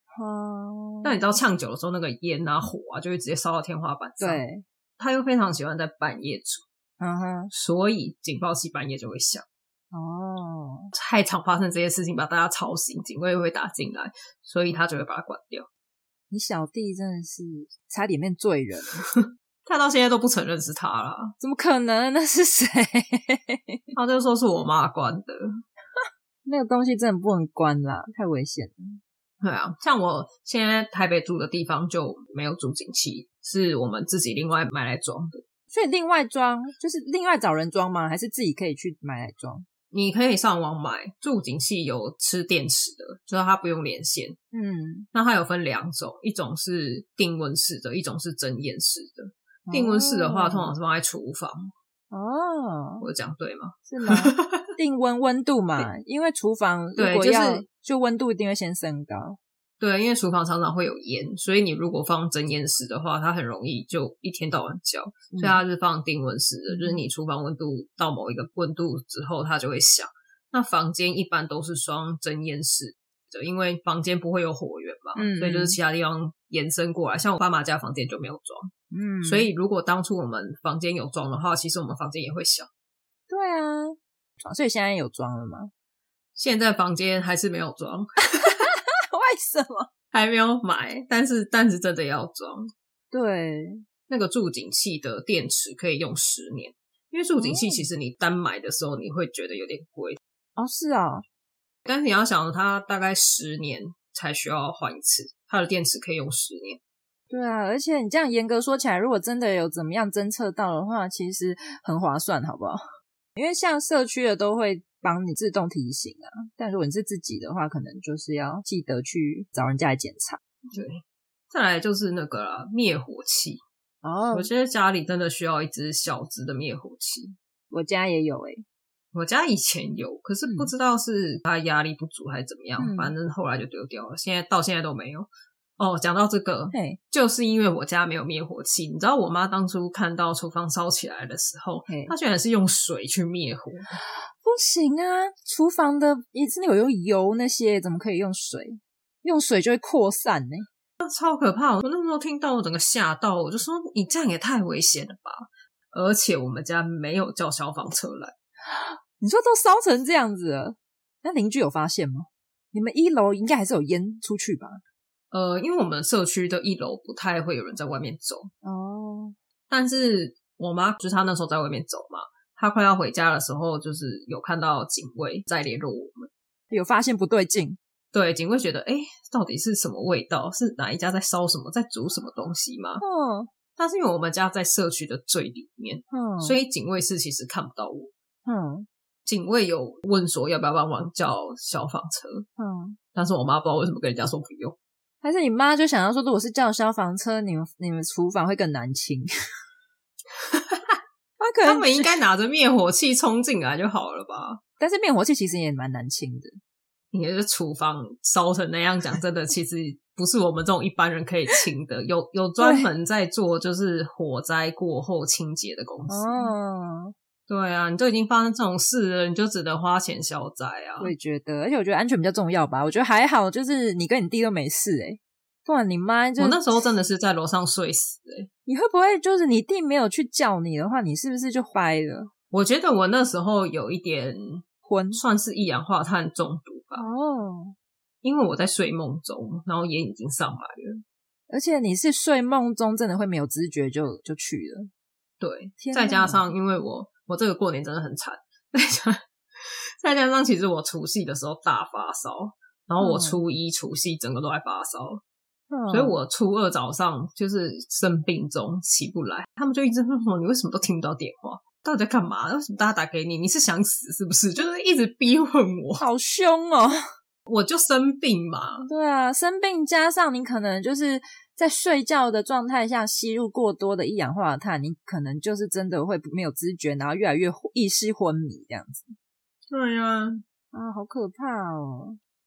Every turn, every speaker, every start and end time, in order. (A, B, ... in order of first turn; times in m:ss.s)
0:00.1-0:01.2 A
0:01.0-0:04.4 B
0:04.2-0:04.6 A
0:05.0-0:06.6 B
0:07.0-0:07.5 A
0:07.5-0:09.4 B
0:09.9-0:10.9 A
0:11.0-0:15.7 B
0:16.3-0:19.1 A
0:19.1-0:21.4 B
0:21.4-0:23.8 A
0:23.9-0:25.4 B
0:26.5-0:29.0 A
0:29.4-0:35.4 B
0:35.7-0:39.7 A
0:39.9-0:44.4 B
0:44.5-0:45.1 A
0:45.1-0:51.7 B
0:49.7-0:50.7 A
0:52.1-0:53.0 A
0:53.0-0:54.6 B
0:53.9-0:59.4 A
0:57.0-0:57.6 B
0:59.8-1:18.7 B
1:05.3-1:05.6 A
1:06.7-1:07.0 A
1:15.2-1:15.8 A
1:18.9-1:19.5 A
1:19.2-1:22.7 B
1:23.3-1:25.7 A
1:26.4-1:28.6 B
1:28.4-1:29.9 A
1:30.1-1:32.7 B
1:33.1-1:33.8 A
1:34.1-1:40.2 B
1:37.4-1:37.9 A
1:40.6-1:41.2 A
1:41.9-1:46.8 B
1:47.3-1:52.8 A
1:53.4-2:00.4 A
2:00.7-2:03.6 B
2:04.0-2:04.5 A
2:04.3-2:07.4 B
2:07.7-2:08.6 A
2:09.1-2:23.9 B
2:10.5-2:10.7 A
2:12.8-2:13.1 A
2:16.7-2:17.0 A
2:21.9-2:22.1 A
2:23.9-2:30.7 A
2:31.0-2:38.3 B
2:38.7-2:44.8 A
2:45.3-2:48.5 B
2:48.6-2:49.4 A
2:49.7-2:56.3 B
2:56.7-2:57.8 A
2:58.1-3:03.0 B
3:03.0-3:03.5 A
3:03.8-3:08.1 B
3:06.1-3:06.6 A
3:08.5-3:08.9 A
3:09.2-3:12.5 B
3:12.6-3:13.0 A
3:13.1-3:14.8 B
3:15.2-3:19.3 A
3:20.4-3:21.0 B
3:21.4-3:22.1 A
3:21.6-3:24.6 B
3:24.8-3:26.6 A
3:27.1-3:36.5 B
3:32.6-3:32.9 A
3:36.1-3:37.1 A
3:37.5-3:41.1 B
3:41.0-3:46.8 A
3:46.4-3:48.5 B
3:48.7-3:52.3 A
3:52.5-3:57.0 B
3:54.8-3:55.2 A
3:57.0-3:57.8 A
3:58.2-4:01.0 B
4:01.5-4:04.9 A
4:05.4-4:15.2 B
4:05.8-4:06.5 A
4:13.0-4:13.4 A
4:15.7-4:16.2 A
4:15.9-4:26.0 B
4:26.0-4:27.0 A
4:27.5-4:28.9 B
4:28.9-4:39.1 A
4:39.7-4:40.4 B
4:40.7-4:42.2 A